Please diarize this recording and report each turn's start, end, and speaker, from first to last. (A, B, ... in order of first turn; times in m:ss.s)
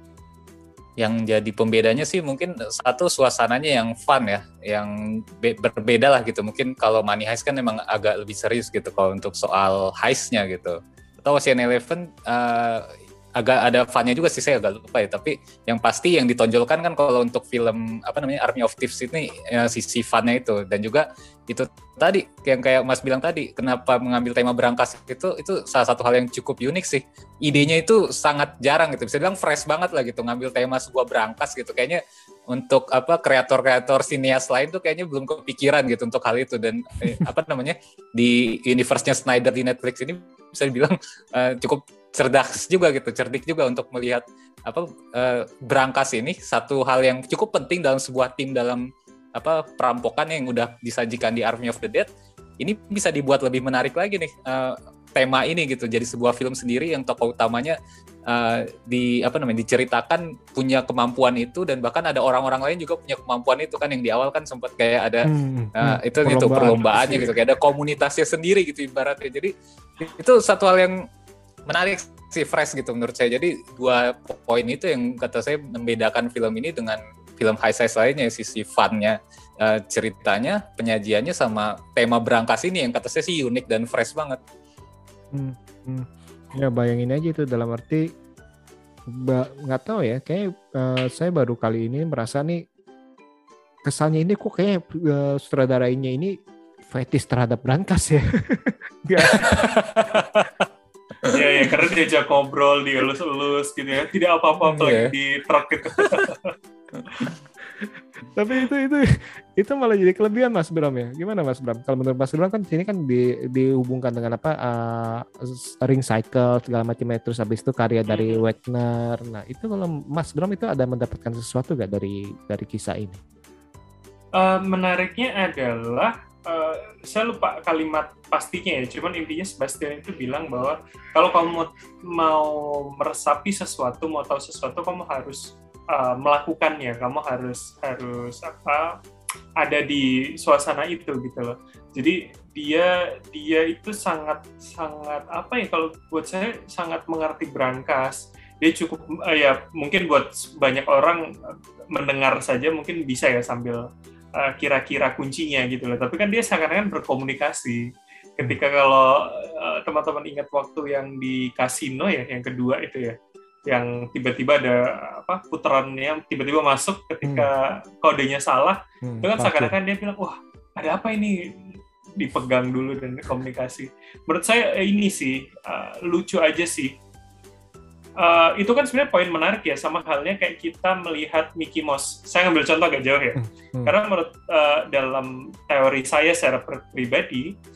0:01.0-0:52.1 A
0:52.6-1:11.0 A
1:05.2-1:07.3 B
1:06.9-1:07.3 C
1:11.7-1:24.4 A
1:25.3-1:28.1 B
1:29.1-1:32.6 B
1:33.8-1:36.4 B
1:36.9-1:39.8 B
1:39.2-1:40.6 A
1:41.3-1:46.5 C
1:44.6-1:45.1 A
1:47.8-2:03.2 B
1:58.1-1:58.4 C
2:04.4-2:19.0 C
2:19.6-2:33.8 C
2:34.4-2:43.2 C
2:43.7-2:56.9 C
2:47.2-2:47.5 B
2:49.0-2:49.7 B
2:58.2-3:07.5 C
3:03.4-3:03.9 B